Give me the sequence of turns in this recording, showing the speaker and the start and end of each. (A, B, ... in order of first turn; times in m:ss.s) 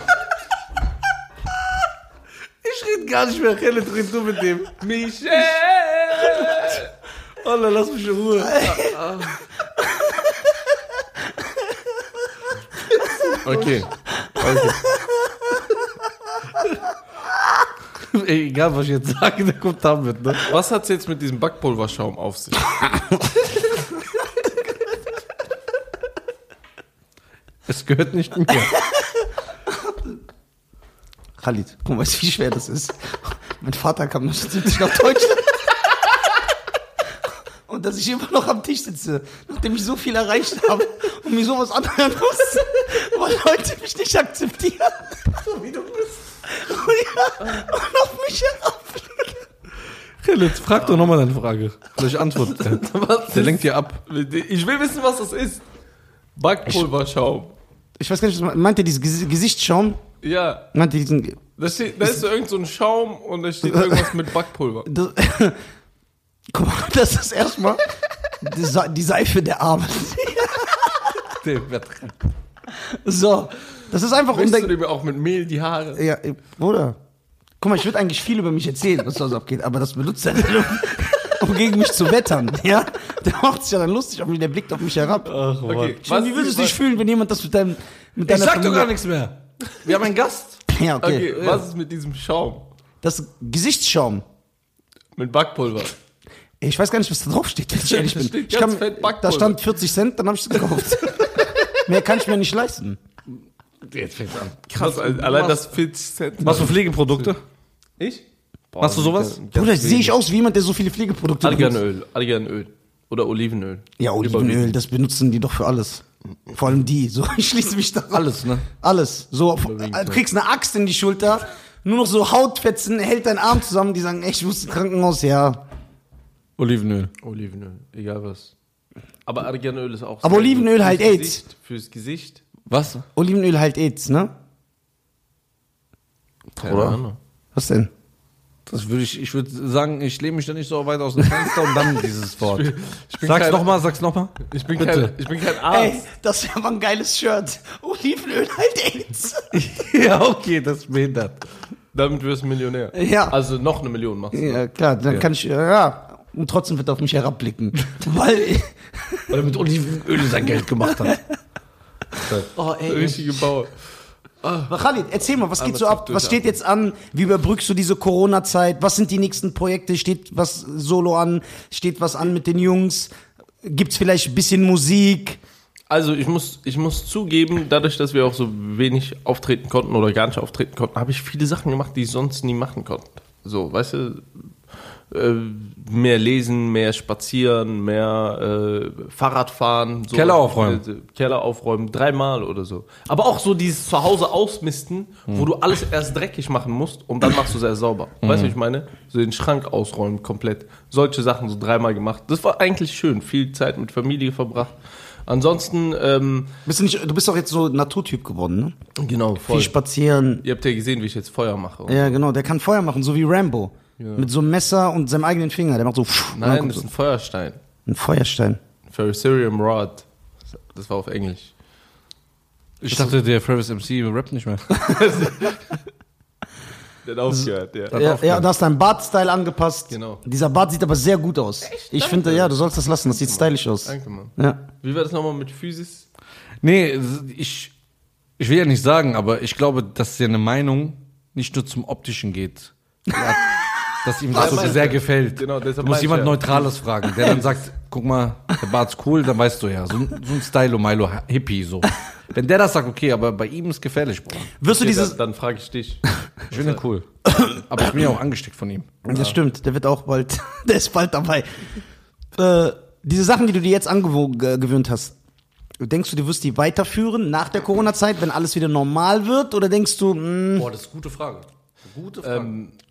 0:02.6-0:04.8 A
0:04.8-0:06.9 B
0:07.4-0:09.4 A
0:08.4-0:09.1 C
0:09.8-0:10.6 C
0:13.4-0:14.8 B
0:14.4-0:15.7 C
0:18.0-0:20.5 A
0:20.5-0:22.8 B
0:27.7-0:28.8 A
0:28.6-0:30.2 C
0:31.4-0:35.8 C
0:37.7-0:45.4 C
0:45.5-0:46.2 A
0:46.5-0:49.5 C
0:50.2-0:54.0 A
0:52.4-0:55.6 B
0:56.4-0:57.5 B
0:58.0-1:00.0 C
1:00.2-1:00.7 B
1:00.7-1:01.4 C
1:01.6-1:04.9 B
1:03.7-1:04.1 C
1:04.9-1:05.6 C
1:06.5-1:07.8 C
1:08.4-1:11.1 C
1:11.3-1:12.2 A
1:12.7-1:14.8 C
1:14.3-1:16.0 B
1:16.0-1:17.0 C
1:17.6-1:25.3 C
1:25.3-1:26.0 A
1:25.6-1:26.8 B
1:26.0-1:28.9 C
1:28.2-1:30.6 A
1:30.7-1:31.4 C
1:31.0-1:32.7 B
1:31.4-1:31.6 A
1:33.0-1:34.2 C
1:35.2-1:36.0 B
1:36.6-1:43.0 C
1:37.8-1:39.6 B
1:43.8-1:45.6 A
1:44.7-1:47.3 B
1:46.4-1:47.4 A
1:48.0-1:50.2 B
1:48.8-1:49.4 A
1:49.5-1:51.8 C
1:51.4-1:54.8 B
1:54.0-2:05.6 C
1:58.1-1:58.7 A
1:59.6-2:00.2 B
2:06.6-2:07.1 A
2:07.2-2:08.5 B
2:09.3-2:12.4 B
2:10.2-2:11.4 C
2:12.7-2:13.0 A
2:13.2-2:14.3 C
2:16.6-2:17.2 B
2:16.6-2:17.0 A
2:17.6-2:17.9 C
2:18.7-2:25.2 A
2:22.4-2:23.8 B
2:24.5-2:26.0 B
2:25.6-2:29.5 C
2:29.5-2:31.4 A
2:31.9-2:34.6 B
2:32.9-2:33.4 C
2:34.3-2:39.2 C
2:39.3-2:41.2 A
2:42.3-2:43.1 A
2:42.6-2:43.8 B
2:42.9-2:43.3 C
2:44.7-2:53.1 C
2:45.6-2:46.4 B
2:53.6-2:55.4 C
2:55.9-3:04.4 B
3:05.1-3:26.5 B
3:10.1-3:10.8 A
3:18.2-3:18.5 A
3:26.7-3:28.8 C
3:29.0-3:29.7 B
3:29.4-3:30.4 C
3:30.4-3:32.2 B
3:31.9-3:36.9 C
3:34.0-3:34.3 B
3:36.3-3:37.6 B
3:37.9-3:38.6 C
3:38.9-3:41.5 B
3:42.8-3:44.8 A
3:44.7-3:45.7 B
3:47.0-3:48.0 B
3:47.3-3:54.6 C
3:47.9-3:48.4 A
3:49.9-3:50.2 B
3:51.6-3:52.6 B
3:53.1-3:56.1 B
3:56.6-3:57.7 A
3:58.4-4:14.5 A
4:04.3-4:07.5 B
4:04.4-4:04.7 C
4:14.6-4:15.2 C
4:14.7-4:16.8 B
4:16.5-4:19.0 A
4:17.3-4:17.6 C
4:19.0-4:21.8 C
4:22.4-4:25.2 C
4:25.8-4:30.7 C
4:30.6-4:32.5 A
4:32.2-4:32.8 B